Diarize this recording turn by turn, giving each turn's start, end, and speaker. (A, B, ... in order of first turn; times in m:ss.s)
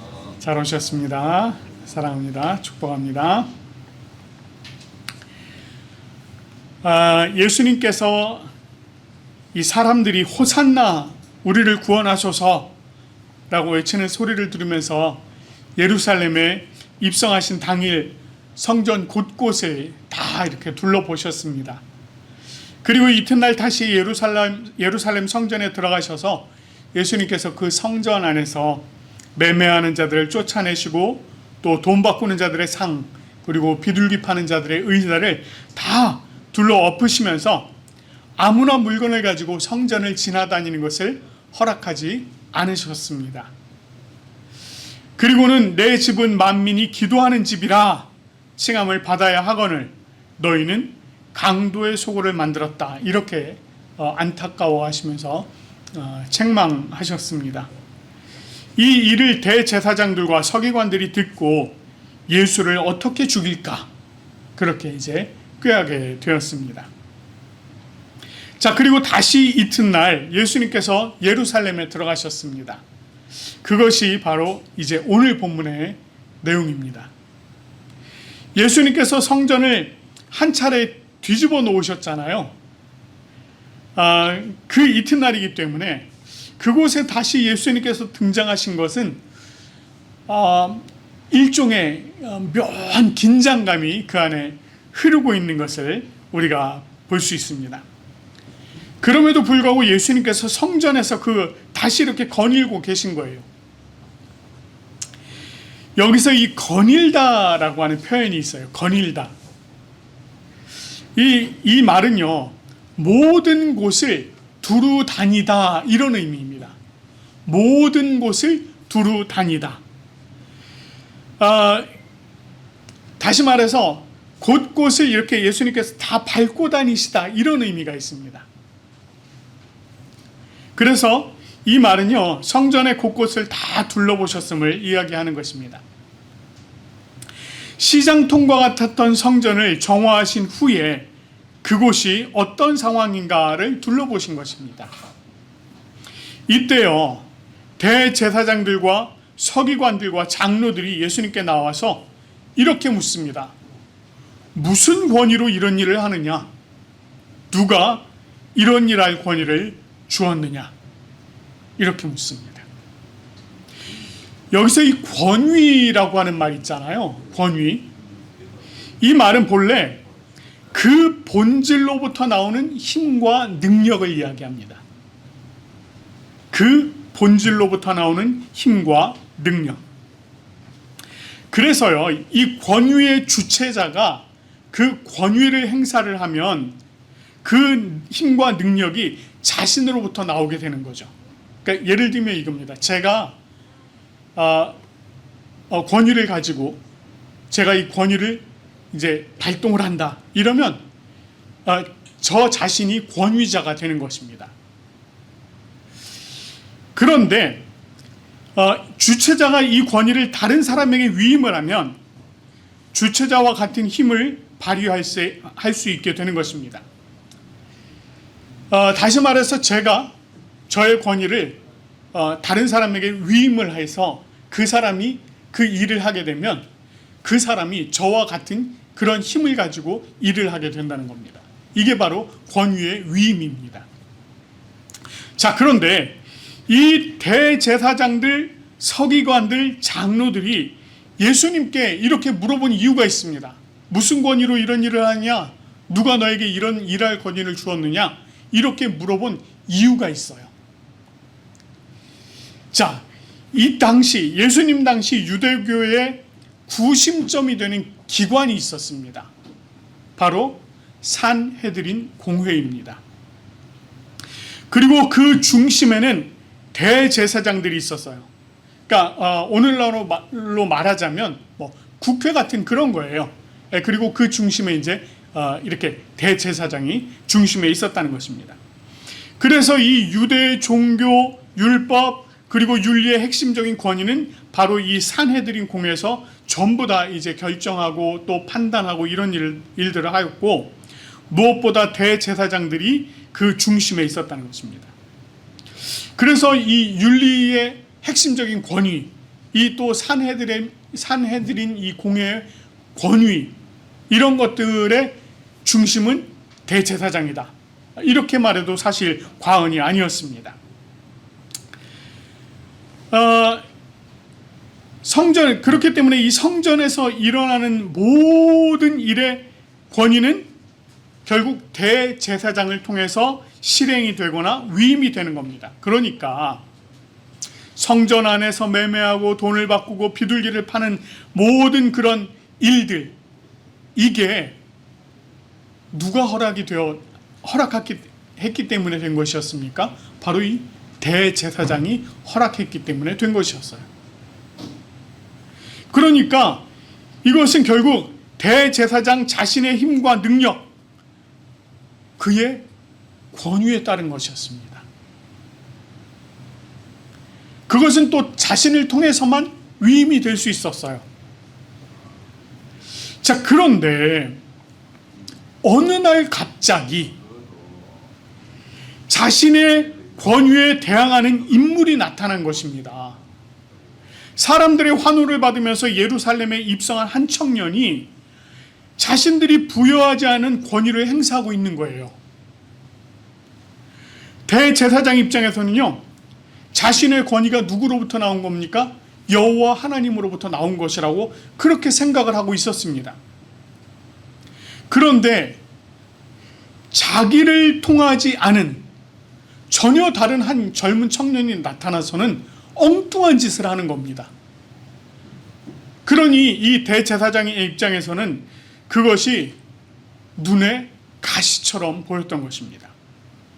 0:00.4-0:03.5 A
0:06.8-0:08.5 A
0:09.5-0:12.7 A
0:13.5-0:15.2 A
0:15.8-0:21.8 A
0:22.8-0:28.8 A
0:29.4-0:37.7 A
0:38.4-0:43.5 A
0:45.2-0:57.7 A
0:58.8-1:01.8 A
1:02.3-1:03.9 A
1:04.6-1:06.9 A
1:08.6-1:12.8 A
1:13.6-1:17.1 A
1:18.6-1:22.6 A
1:24.0-1:29.2 A
1:30.3-1:37.8 A
1:39.0-1:43.5 A
1:46.0-1:49.3 A
1:51.2-1:56.8 A
1:57.4-1:59.8 A
2:01.4-2:01.9 A
2:03.2-2:08.5 A
2:10.8-2:15.8 A
2:17.8-2:21.1 A
2:21.6-2:24.9 A
2:26.5-2:33.5 A
2:34.6-2:36.5 A
2:37.5-2:40.7 A
2:41.8-2:42.7 A
2:44.5-2:47.9 A
2:49.0-2:50.0 A
2:50.7-2:54.8 A
2:56.5-2:59.8 A
3:01.5-3:06.8 A
3:07.4-3:11.1 A
3:11.6-3:13.4 A
3:14.4-3:14.8 A
3:15.7-3:16.8 A
3:17.5-3:20.8 A
3:21.6-3:24.5 A
3:27.0-3:27.6 A
3:28.6-3:32.0 A
3:32.9-3:36.8 A
3:38.7-3:40.2 A
3:40.7-3:41.6 A
3:42.1-3:46.7 A
3:47.2-3:53.9 A
3:55.4-4:10.5 A
4:12.7-4:19.3 A
4:20.2-4:23.0 A
4:24.7-4:28.3 A
4:28.9-4:38.6 A
4:39.4-4:50.8 A
4:51.3-4:54.9 A
4:56.2-5:03.5 A
5:04.1-5:10.6 A
5:13.1-5:13.6 A
5:15.0-5:20.5 A
5:21.3-5:26.6 A
5:27.8-5:33.2 A
5:34.0-5:34.6 A
5:35.9-5:43.9 A
5:45.9-5:46.6 A
5:47.2-5:50.7 A
5:52.2-5:52.6 A
5:53.3-5:54.8 A
5:57.7-6:01.0 A
6:03.2-6:04.4 A
6:05.6-6:07.2 A
6:09.1-6:13.2 A
6:14.4-6:18.1 A
6:19.0-6:22.2 A
6:24.5-6:26.0 A
6:26.7-6:33.2 A
6:34.9-6:35.6 A
6:36.9-6:38.9 A
6:39.7-6:44.3 A
6:46.0-6:49.6 A
6:50.4-6:52.9 A